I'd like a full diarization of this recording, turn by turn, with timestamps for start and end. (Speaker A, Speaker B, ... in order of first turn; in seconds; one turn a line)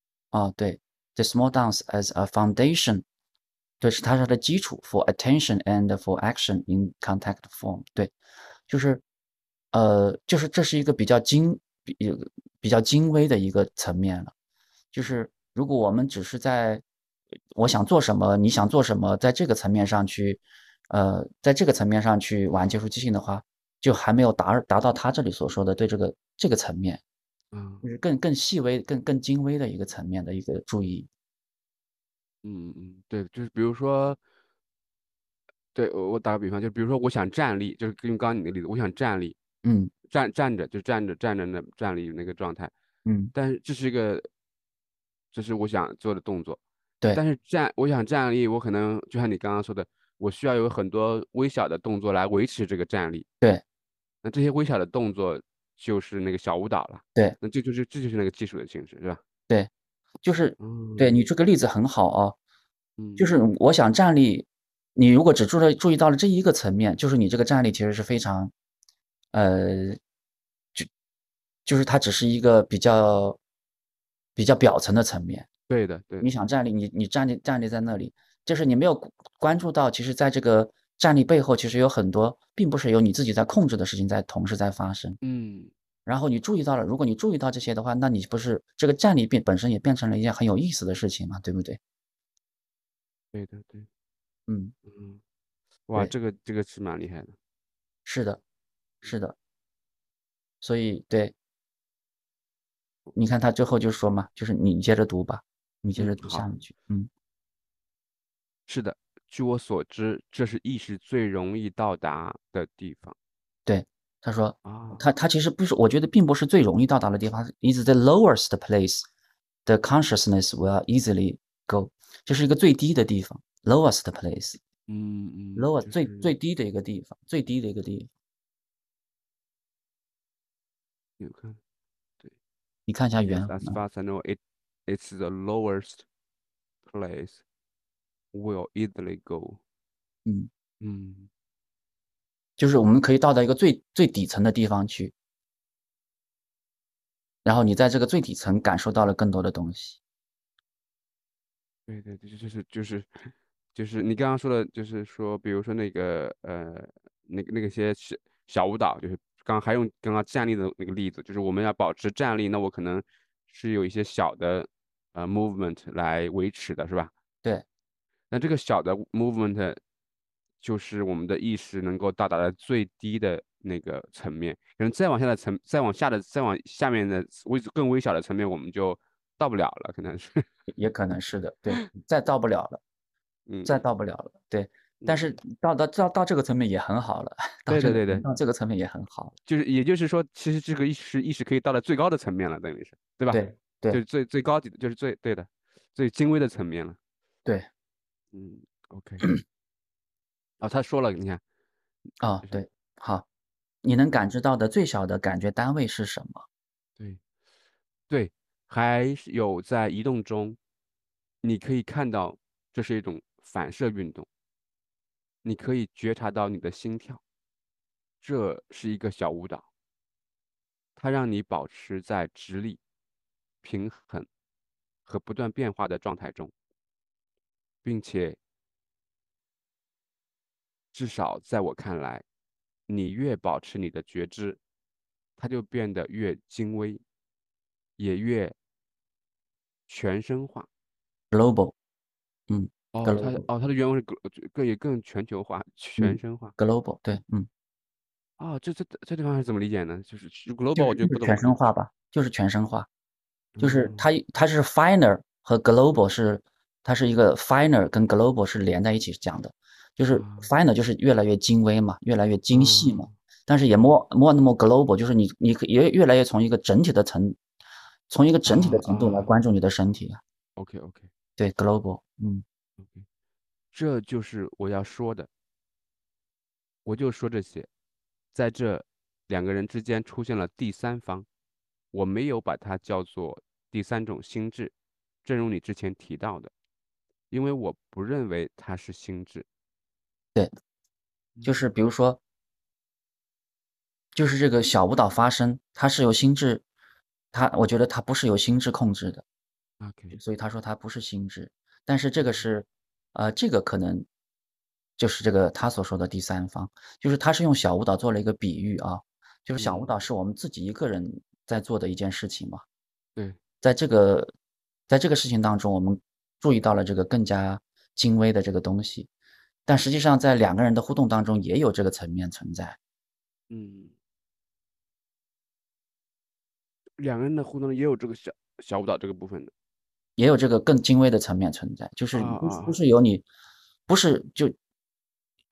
Speaker A: 0.3-3.0
Speaker A: 3.8-8.1
Speaker A: 8.7-9.0
Speaker A: 9.7-14.3
Speaker A: 14.9-16.8
Speaker A: 17.6-27.0
Speaker B: 27.5-27.9
Speaker A: 27.8-31.1
Speaker B: 32.4-34.2
Speaker B: 35.7-39.4
Speaker A: 39.6-39.9
Speaker B: 40.1-42.7
Speaker A: 43.0-43.3
Speaker B: 43.3-44.3
Speaker B: 45.3-46.6
Speaker B: 47.1-53.3
Speaker B: 54.2-59.2
Speaker A: 60.2-62.4
Speaker B: 60.6-61.2
Speaker B: 63.0-63.3
Speaker A: 63.2-68.5
Speaker A: 69.3-70.0
Speaker A: 71.7-73.4
Speaker A: 74.4-75.5
Speaker B: 75.7-76.3
Speaker A: 76.2-85.2
Speaker B: 85.2-85.7
Speaker A: 86.1-91.8
Speaker B: 93.3-93.9
Speaker A: 94.5-94.7
Speaker B: 94.9-95.2
Speaker B: 95.9-97.4
Speaker A: 98.1-98.4
Speaker A: 99.0-99.3
Speaker A: 100.6-101.3
Speaker A: 103.2-107.1
Speaker B: 106.0-106.5
Speaker B: 108.7-113.2
Speaker A: 113.7-119.1
Speaker B: 114.7-115.0
Speaker A: 119.7-124.6
Speaker B: 124.9-126.3
Speaker A: 125.6-128.1
Speaker B: 131.2-131.6
Speaker A: 132.9-133.8
Speaker B: 133.2-136.1
Speaker B: 136.8-137.4
Speaker B: 138.3-139.6
Speaker B: 140.8-141.3
Speaker A: 142.6-145.1
Speaker A: 147.4-150.0
Speaker B: 151.9-167.1
Speaker B: 168.3-169.8
Speaker B: 170.6-180.4
Speaker A: 180.7-182.8
Speaker B: 183.5-183.8
Speaker A: 183.7-189.3
Speaker B: 185.0-185.3
Speaker B: 187.7-188.3
Speaker B: 189.5-197.0
Speaker A: 193.3-194.0
Speaker B: 198.3-199.3
Speaker B: 200.6-201.4
Speaker A: 202.2-203.2
Speaker A: 203.8-206.4
Speaker B: 208.1-210.6
Speaker B: 211.4-214.3
Speaker B: 215.4-217.2
Speaker B: 218.2-219.7
Speaker B: 221.0-222.8
Speaker B: 223.6-224.3
Speaker B: 225.1-226.5
Speaker B: 227.8-228.4
Speaker B: 230.9-232.2
Speaker B: 232.9-234.6
Speaker B: 235.4-237.0
Speaker B: 238.0-238.6
Speaker B: 239.9-240.7
Speaker A: 241.3-241.8
Speaker A: 242.5-243.4
Speaker B: 242.9-246.6
Speaker A: 246.0-247.5
Speaker B: 248.4-251.7
Speaker A: 250.8-252.9
Speaker B: 253.6-254.1
Speaker A: 253.6-267.4
Speaker B: 260.1-260.5
Speaker B: 262.5-263.1
Speaker A: 268.1-270.2
Speaker B: 268.4-269.4
Speaker B: 270.6-271.1
Speaker A: 271.4-272.4
Speaker B: 272.8-273.1
Speaker B: 273.7-275.3
Speaker B: 276.9-277.7
Speaker B: 278.3-281.3
Speaker B: 281.9-284.7
Speaker B: 285.2-286.5
Speaker B: 287.3-289.5
Speaker B: 291.4-291.7
Speaker A: 291.4-292.2
Speaker A: 294.1-296.6
Speaker A: 297.3-299.2
Speaker B: 299.8-300.2
Speaker A: 300.1-304.1
Speaker B: 302.2-302.5
Speaker A: 305.0-312.6
Speaker B: 309.6-309.9
Speaker A: 313.6-314.3
Speaker A: 314.9-319.1
Speaker A: 319.7-322.8
Speaker B: 323.5-323.9
Speaker B: 327.0-329.5
Speaker A: 330.2-333.3
Speaker B: 332.1-332.8
Speaker A: 333.9-334.6